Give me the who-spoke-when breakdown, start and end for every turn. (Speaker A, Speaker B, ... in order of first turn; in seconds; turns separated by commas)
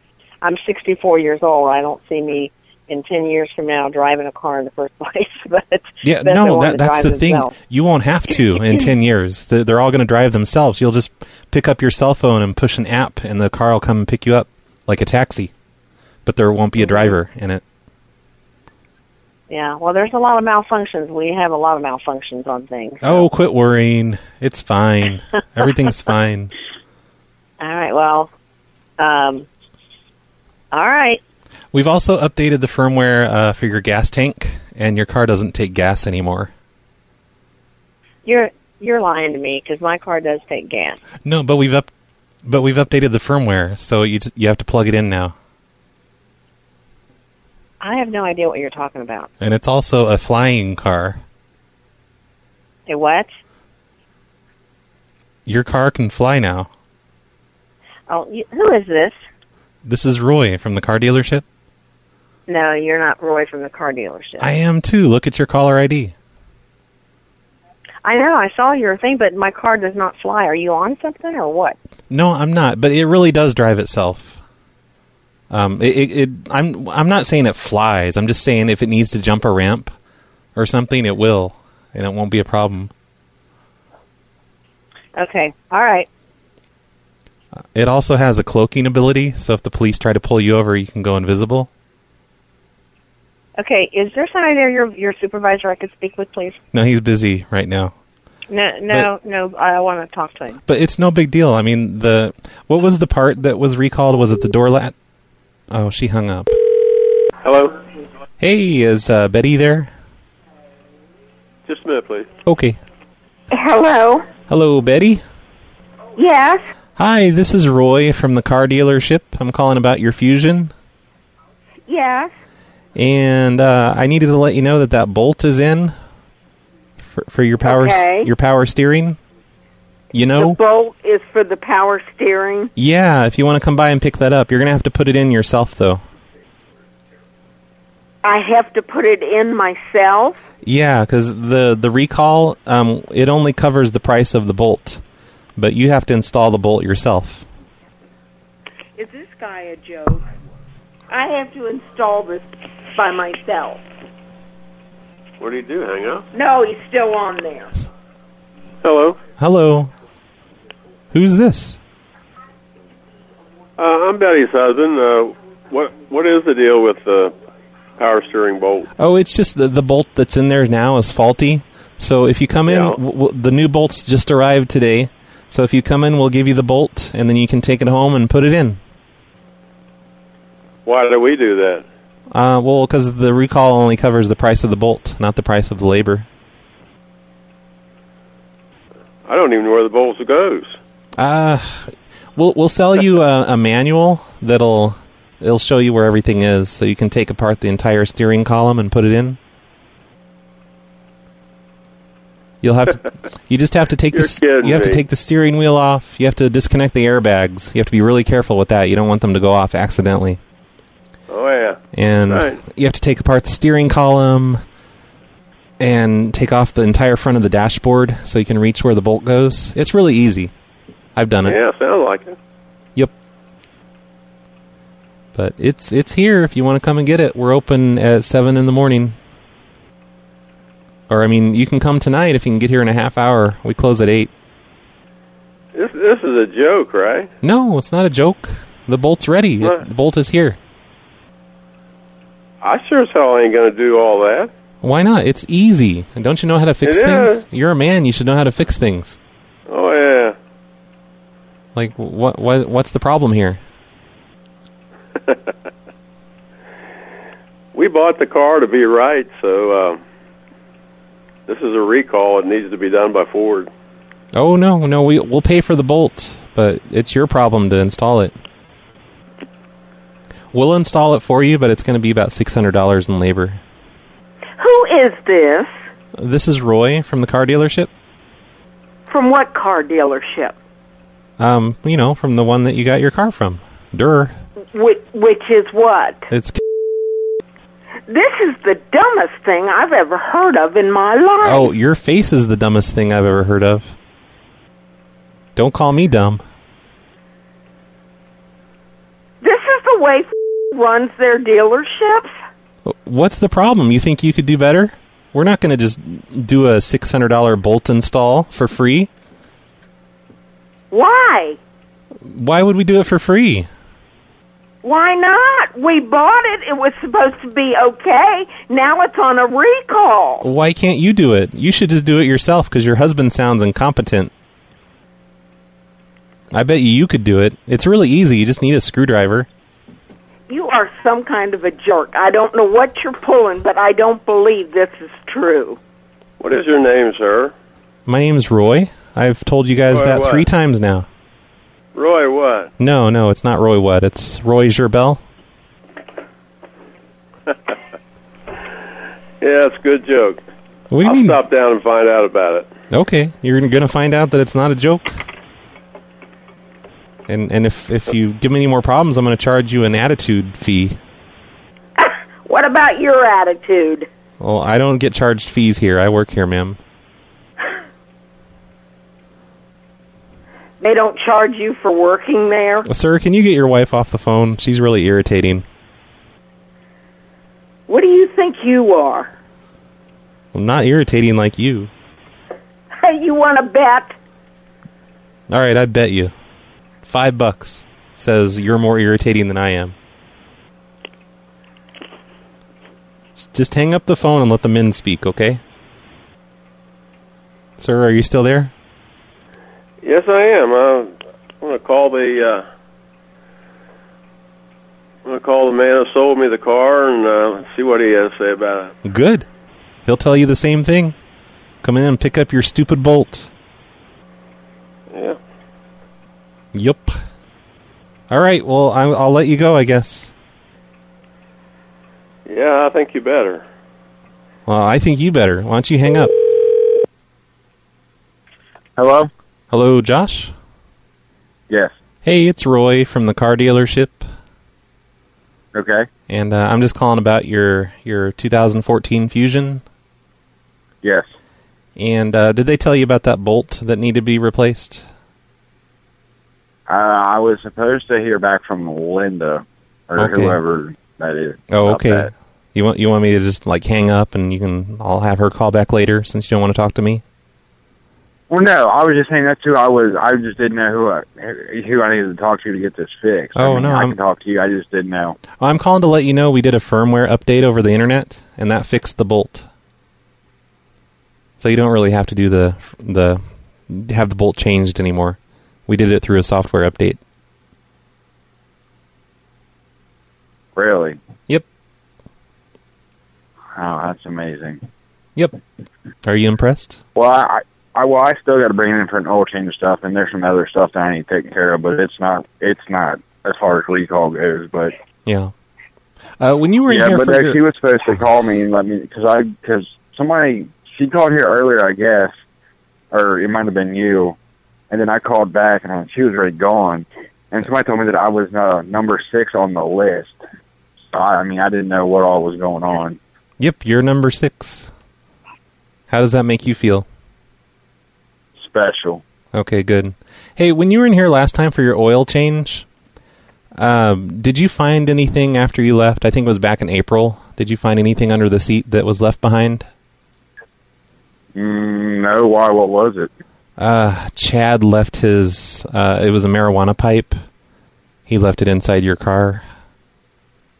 Speaker A: 0.4-7.5, Speaker B: 6.0-15.5, Speaker B: 16.2-17.6, Speaker A: 16.8-17.1, Speaker A: 19.5-23.3, Speaker B: 23.0-26.5, Speaker A: 27.6-28.3, Speaker A: 29.0-29.5, Speaker A: 30.7-31.2, Speaker B: 31.7-36.5, Speaker A: 38.2-41.0, Speaker B: 41.2-41.9, Speaker B: 42.4-45.3, Speaker A: 47.8-49.3, Speaker B: 49.4-51.2, Speaker A: 52.9-53.3, Speaker B: 55.5-56.7, Speaker A: 58.1-59.1, Speaker B: 59.8-61.4, Speaker A: 62.5-64.5, Speaker B: 64.4-66.1, Speaker A: 68.0-71.8, Speaker B: 72.1-74.4, Speaker B: 75.5-79.9, Speaker B: 80.5-82.9, Speaker A: 85.2-86.1, Speaker B: 87.7-91.7, Speaker A: 93.6-96.6, Speaker B: 96.7-97.9, Speaker A: 98.5-100.6, Speaker B: 100.7-104.9, Speaker B: 105.7-106.5, Speaker C: 107.4-107.8, Speaker B: 108.4-109.9, Speaker C: 111.7-112.3, Speaker B: 112.4-112.8, Speaker D: 113.5-114.3, Speaker B: 114.5-115.2, Speaker D: 116.2-116.7, Speaker B: 117.0-120.7, Speaker D: 121.9-122.3, Speaker B: 123.0-125.9, Speaker B: 127.0-129.2, Speaker D: 127.6-128.3, Speaker B: 130.1-130.6, Speaker D: 130.4-132.7, Speaker B: 132.8-136.0, Speaker D: 138.2-140.4, Speaker B: 140.6-145.0, Speaker B: 145.6-147.4, Speaker D: 149.0-150.2, Speaker D: 151.1-153.8, Speaker C: 155.4-156.2, Speaker D: 156.3-157.7, Speaker C: 158.8-159.2, Speaker B: 159.4-159.9, Speaker B: 161.1-161.8, Speaker C: 163.8-167.3, Speaker C: 168.0-168.9, Speaker B: 169.0-178.8, Speaker C: 172.7-173.0, Speaker C: 180.8-181.8, Speaker B: 182.3-186.2, Speaker C: 189.2-190.8, Speaker B: 191.2-199.4, Speaker B: 202.6-210.4, Speaker C: 204.1-205.0, Speaker C: 211.3-212.6, Speaker B: 211.9-214.6, Speaker B: 215.8-220.5, Speaker B: 221.2-221.6, Speaker C: 221.4-222.3, Speaker B: 225.3-229.2, Speaker B: 231.1-234.3, Speaker C: 235.7-237.3, Speaker B: 237.4-240.6, Speaker C: 242.6-244.5, Speaker B: 244.8-249.2, Speaker C: 246.8-247.4, Speaker C: 249.7-250.3, Speaker B: 251.7-253.6, Speaker C: 255.2-255.5, Speaker C: 257.7-260.0, Speaker C: 261.5-263.7, Speaker B: 264.3-268.4, Speaker B: 270.5-273.6, Speaker D: 274.6-275.7, Speaker B: 276.1-277.9, Speaker D: 279.1-280.5, Speaker B: 281.4-284.4, Speaker D: 284.7-286.3, Speaker B: 286.3-286.6, Speaker D: 288.1-291.7, Speaker B: 291.4-293.9, Speaker B: 295.6-296.4, Speaker D: 299.4-302.3, Speaker B: 302.8-309.1, Speaker D: 310.9-311.6, Speaker B: 312.2-313.7, Speaker D: 314.8-320.4, Speaker B: 320.4-324.3, Speaker B: 326.5-329.5, Speaker D: 330.5-335.8, Speaker C: 336.4-337.5, Speaker B: 338.1-341.1, Speaker C: 339.9-340.4, Speaker C: 341.9-342.7, Speaker B: 342.8-345.2, Speaker C: 349.4-350.4, Speaker B: 350.9-351.4, Speaker C: 351.0-352.7, Speaker B: 352.9-355.2, Speaker B: 357.3-361.0, Speaker D: 362.0-364.1, Speaker B: 364.4-366.8, Speaker D: 370.8-372.9, Speaker B: 372.8-375.6, Speaker D: 377.9-379.3, Speaker B: 380.5-381.9, Speaker D: 383.0-384.1, Speaker B: 385.5-386.3, Speaker B: 387.0-389.9, Speaker B: 393.4-395.6, Speaker B: 397.8-398.7, Speaker C: 400.0-402.6, Speaker C: 405.2-408.9, Speaker B: 409.0-409.4, Speaker B: 410.0-411.1, Speaker B: 411.8-413.5, Speaker C: 415.1-415.4, Speaker B: 416.7-417.2, Speaker B: 418.3-420.3, Speaker C: 422.4-423.6, Speaker B: 424.7-426.4, Speaker E: 429.0-429.3, Speaker B: 429.7-430.5, Speaker B: 432.2-434.3, Speaker E: 435.7-436.1, Speaker B: 436.3-439.8, Speaker E: 441.0-441.3, Speaker B: 441.9-445.1, Speaker E: 446.9-452.3, Speaker B: 450.2-450.6, Speaker B: 451.7-457.2, Speaker E: 458.5-465.4, Speaker B: 463.6-464.2, Speaker B: 465.6-469.7, Speaker B: 471.6-477.2, Speaker E: 480.8-481.2, Speaker E: 483.8-484.8, Speaker B: 486.2-487.0, Speaker E: 487.1-494.9, Speaker B: 495.2-495.5, Speaker B: 496.4-497.6, Speaker E: 496.9-502.3, Speaker E: 503.1-504.4, Speaker E: 504.9-510.4, Speaker E: 511.1-513.2, Speaker B: 513.6-514.9, Speaker B: 516.1-517.0, Speaker E: 518.6-519.2, Speaker B: 519.5-522.9, Speaker B: 523.8-529.9, Speaker E: 531.5-533.3, Speaker B: 533.8-537.4, Speaker B: 538.3-539.6